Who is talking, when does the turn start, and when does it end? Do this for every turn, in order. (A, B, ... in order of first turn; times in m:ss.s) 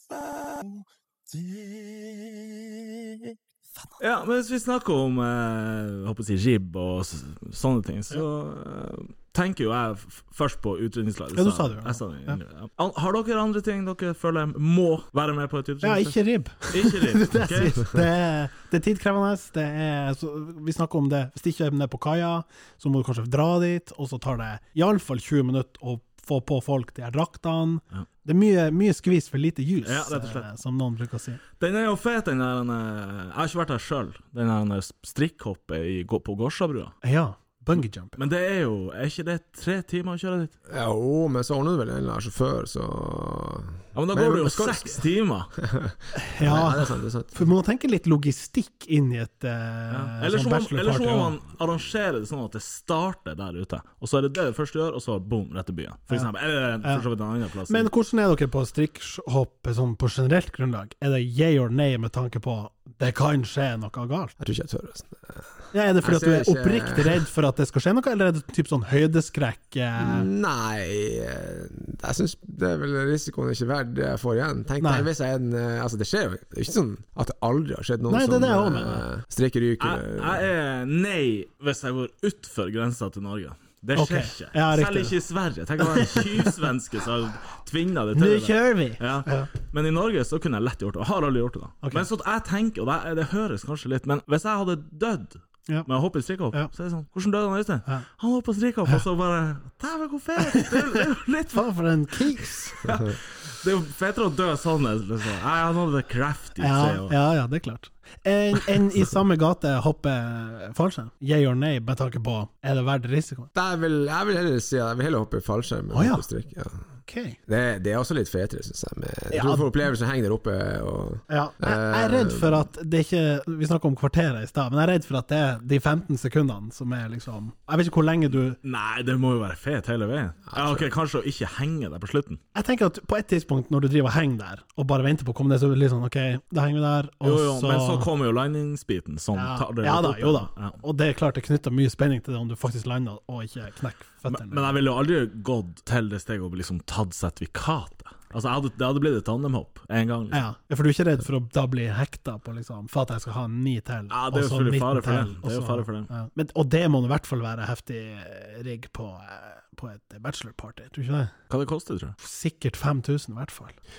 0:04.0-0:17.8 A
0:11.3-0:12.4 B
0:15.8-0:31.4 B
0:29.8-0:30.5 A
0:31.6-0:37.0 A
0:37.0-0:38.2 B
0:38.2-0:40.5 A
0:40.7-0:45.0 C
0:43.9-0:45.5 A
0:45.6-0:47.4 C
0:46.1-0:51.3 B
0:49.9-0:57.9 A
0:57.7-1:04.4 B
1:04.4-1:05.4 C
1:05.7-1:10.3 B
1:06.0-1:07.2 C
1:10.0-1:20.5 C
1:14.8-1:15.1 B
1:18.1-1:19.0 B
1:19.8-1:42.2 A
1:23.9-1:25.1 B
1:25.9-1:26.3 B
1:28.2-1:29.5 B
1:40.5-1:40.8 B
1:41.5-1:42.8 B
1:42.8-1:47.1 A
1:46.6-1:53.5 B
1:53.5-1:56.8 C
1:55.9-1:56.2 B
1:57.1-1:57.4 B
1:57.5-2:02.6 C
1:59.3-1:59.7 B
2:01.3-2:08.6 B
2:08.6-2:12.4 A
2:10.5-2:10.9 C
2:12.5-2:18.1 B
2:17.2-2:20.8 A
2:19.3-2:24.7 B
2:24.3-2:30.4 A
2:30.3-2:41.3 B
2:34.1-2:36.1 A
2:41.5-2:42.2 A
2:42.2-2:43.8 B